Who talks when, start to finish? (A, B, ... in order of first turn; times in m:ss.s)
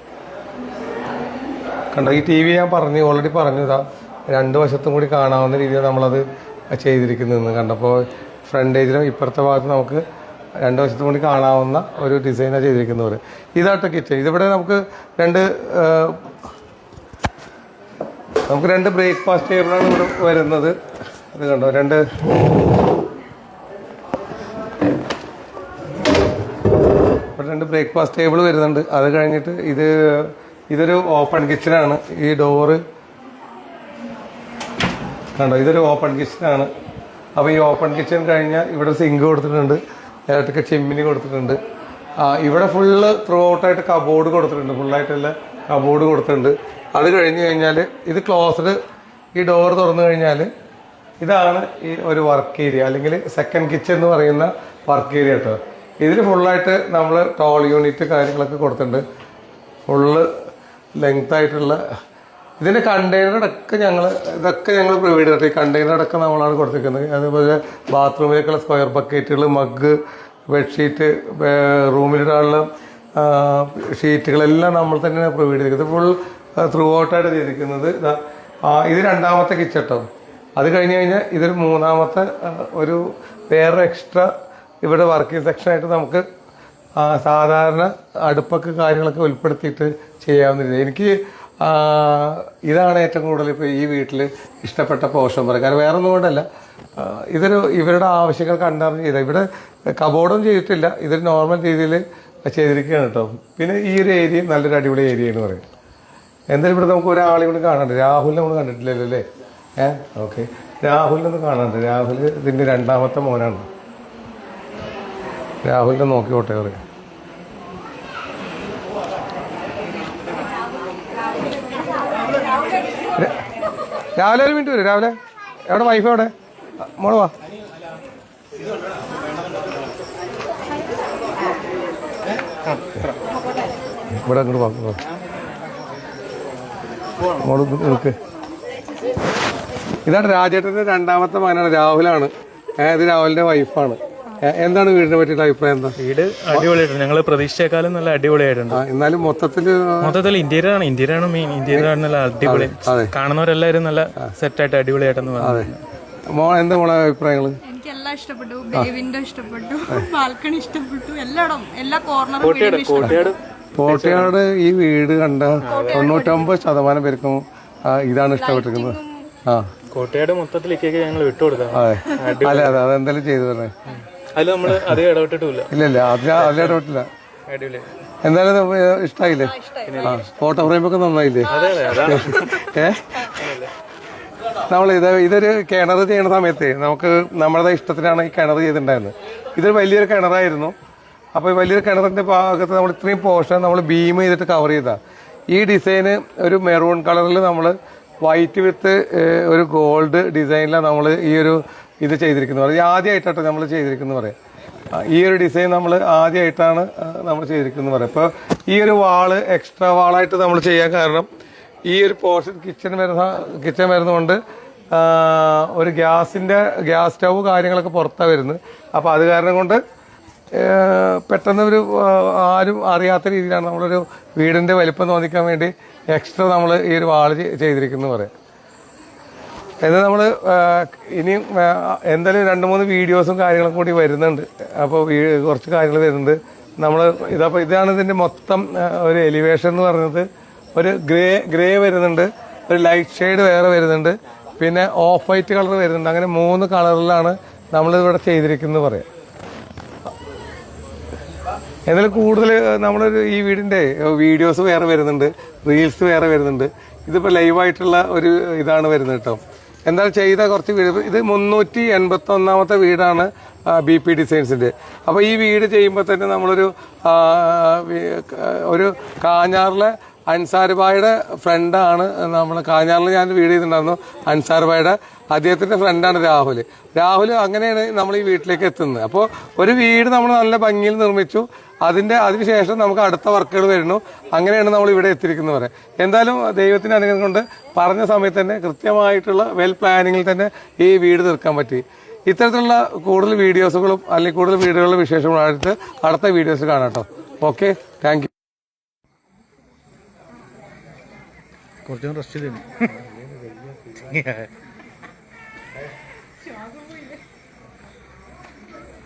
0:01.9-0:10.0 A
0:10.6-0:16.2 A
0:18.5-0:20.8 A
0:21.3-0:22.0 A
0:27.4-0:32.8 A
0:35.4-0:36.7 A
0:37.4-0:41.6 A
0:42.2-0:48.8 A
0:49.4-0:50.5 A
0:51.2-0:59.0 A
0:59.9-1:00.3 A
1:01.0-1:01.8 A
1:02.6-1:10.0 A
1:10.5-1:12.7 A
1:13.2-1:20.0 A
1:20.6-1:24.3 A
1:24.8-1:26.2 A
1:27.0-1:36.5 A
1:37.0-1:45.6 A
1:46.5-1:49.2 A
1:49.8-1:53.7 A
1:55.6-1:56.8 A
2:04.2-2:05.2 A
2:05.7-2:06.3 A
2:06.9-2:07.3 A
2:14.2-2:15.0 A
2:17.4-2:18.2 A
2:20.1-2:26.0 A
2:26.0-2:28.8 B
2:28.7-2:30.2 A
2:30.0-2:35.8 B
2:32.4-2:33.1 A
2:35.4-2:35.7 A
2:36.3-2:37.6 A
2:37.6-2:43.3 C
2:42.4-2:44.3 B
2:43.8-2:49.7 A
2:45.6-2:46.2 B
2:45.6-2:46.5 C
2:48.4-2:49.3 C
2:49.9-2:52.8 B
2:51.7-2:53.7 A
2:53.9-2:55.7 B
2:55.7-2:57.1 A
2:56.3-2:56.8 B
2:57.5-2:57.9 B
2:58.2-3:03.1 A
2:59.4-3:00.3 C
2:59.9-3:00.3 B
3:01.4-3:02.7 B
3:01.6-3:02.0 C
3:03.3-3:03.7 B
3:04.7-3:10.8 A
3:11.4-3:15.0 A
3:15.5-3:24.4 A
3:24.9-3:31.3 A
3:31.9-3:34.4 A
3:34.9-3:39.8 A
3:40.5-3:48.3 A
3:49.8-4:09.1 A
4:11.9-4:58.3 A
5:01.8-5:04.5 D